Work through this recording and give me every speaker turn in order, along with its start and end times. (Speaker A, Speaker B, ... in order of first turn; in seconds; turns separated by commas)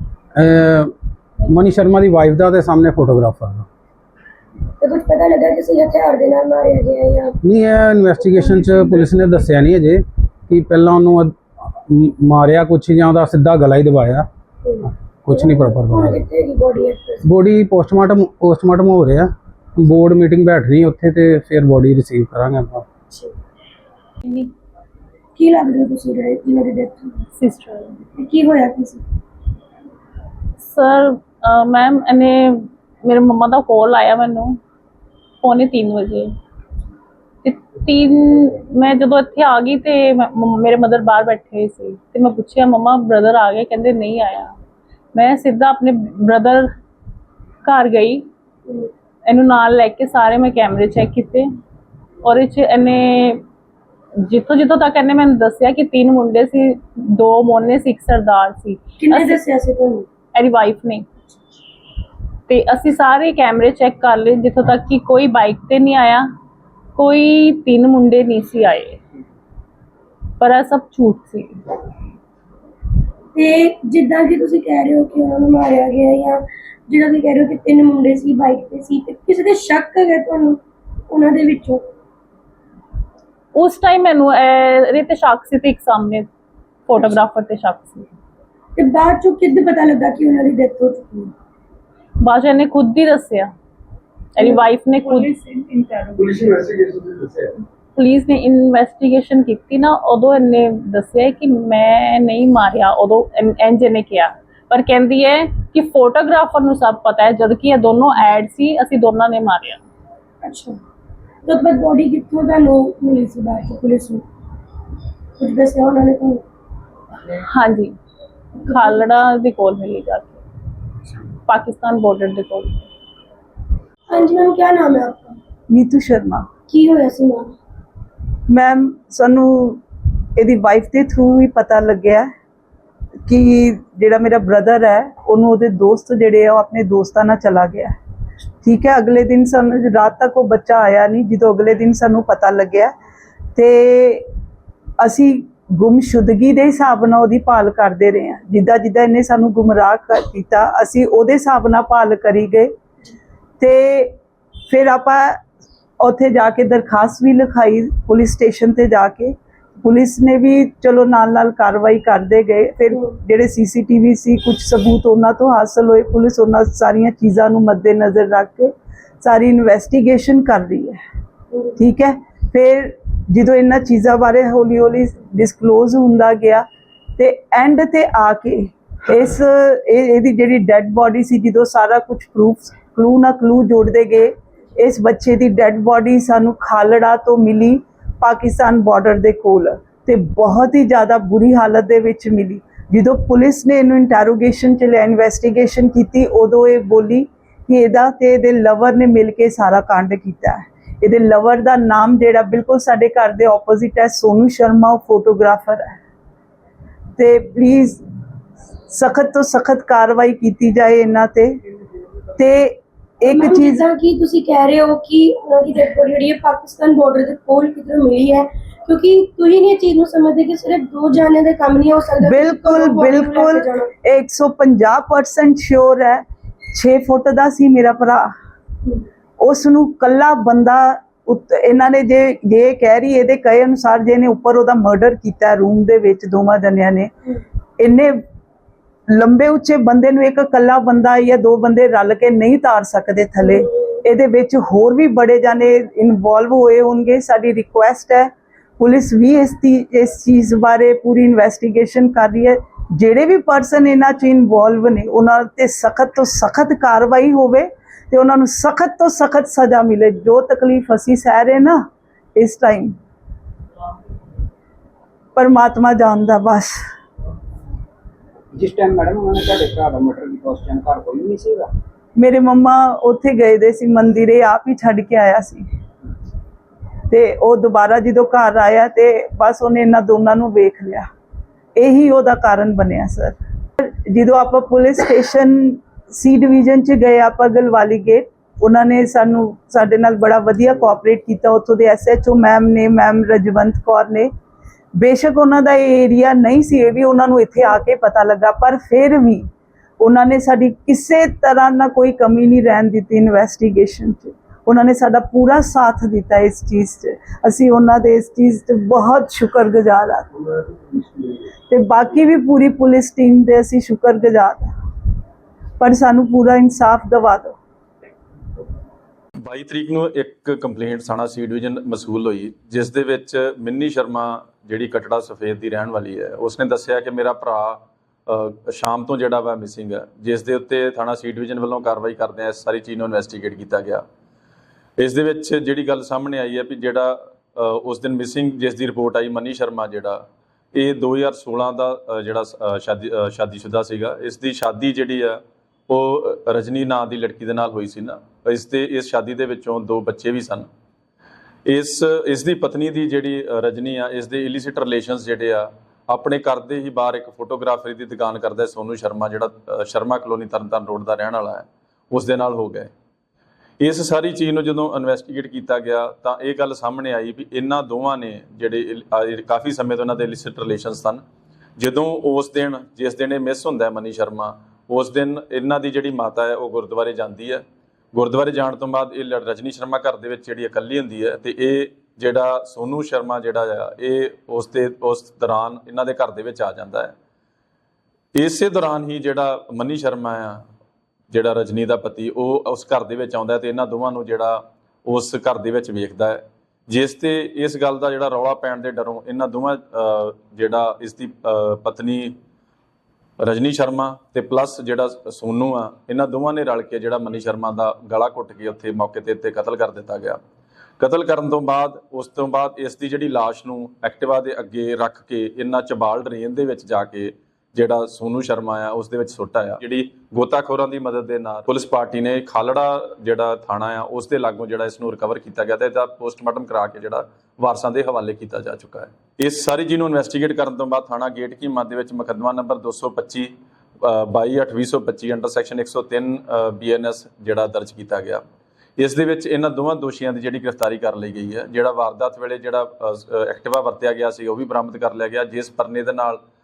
Speaker A: 0.4-0.9, Speaker A: 1.4-3.6, Speaker B: 4.8-7.3, Speaker A: 7.4-11.4, Speaker A: 11.9-14.2, Speaker B: 14.6-17.3, Speaker A: 15.2-16.2, Speaker A: 17.2-22.9, Speaker B: 25.4-27.2, Speaker C: 27.3-27.9, Speaker B: 28.1-29.0, Speaker C: 30.6-34.6, Speaker C: 35.4-36.3, Speaker C: 37.4-44.5, Speaker C: 45.1-46.7, Speaker C: 47.6-48.3, Speaker C: 49.3-51.5, Speaker C: 52.2-53.4, Speaker C: 54.2-59.4, Speaker B: 59.0-60.1, Speaker C: 60.3-61.0, Speaker C: 62.5-66.3, Speaker C: 67.0-69.0, Speaker C: 70.4-71.6, Speaker B: 73.3-81.8, Speaker C: 83.5-86.3, Speaker C: 86.9-88.1, Speaker B: 88.8-91.3, Speaker C: 92.2-93.5, Speaker C: 94.3-95.3, Speaker D: 95.0-96.8, Speaker C: 98.0-109.8, Speaker B: 110.4-110.8, Speaker B: 111.4-114.2, Speaker B: 115.4-116.4, Speaker C: 117.3-117.9, Speaker C: 118.6-120.4, Speaker C: 121.1-122.8, Speaker B: 124.1-125.4, Speaker D: 125.7-126.5, Speaker B: 126.7-127.5, Speaker D: 128.5-129.8, Speaker D: 130.4-132.3, Speaker D: 133.3-137.9, Speaker D: 138.6-142.9, Speaker D: 143.6-144.2, Speaker D: 145.0-152.7, Speaker D: 153.6-154.1, Speaker D: 154.7-155.4, Speaker D: 156.0-171.0, Speaker D: 171.8-176.6, Speaker D: 177.2-206.0, Speaker D: 207.2-208.0, Speaker D: 208.9-211.5, Speaker D: 212.4-213.8, Speaker B: 213.2-223.9, Speaker D: 222.2-228.3, Speaker D: 229.4-237.1, Speaker D: 237.8-238.2, Speaker D: 239.1-261.8, Speaker D: 262.4-262.9, Speaker D: 265.4-266.7, Speaker E: 268.5-271.7, Speaker D: 272.1-275.6, Speaker D: 277.1-281.1, Speaker D: 281.8-294.3, Speaker D: 294.9-299.5, Speaker D: 300.0-310.3, Speaker D: 311.7-314.7, Speaker D: 315.8-317.5, Speaker F: 319.4-334.0, Speaker F: 335.0-340.2, Speaker F: 340.7-350.7, Speaker F: 351.6-362.9, Speaker F: 363.8-371.2, Speaker F: 371.8-387.1, Speaker F: 388.4-390.6, Speaker F: 391.3-402.3, Speaker F: 403.4-410.4, Speaker F: 411.0-433.5, Speaker F: 434.0-438.4, Speaker F: 439.0-446.4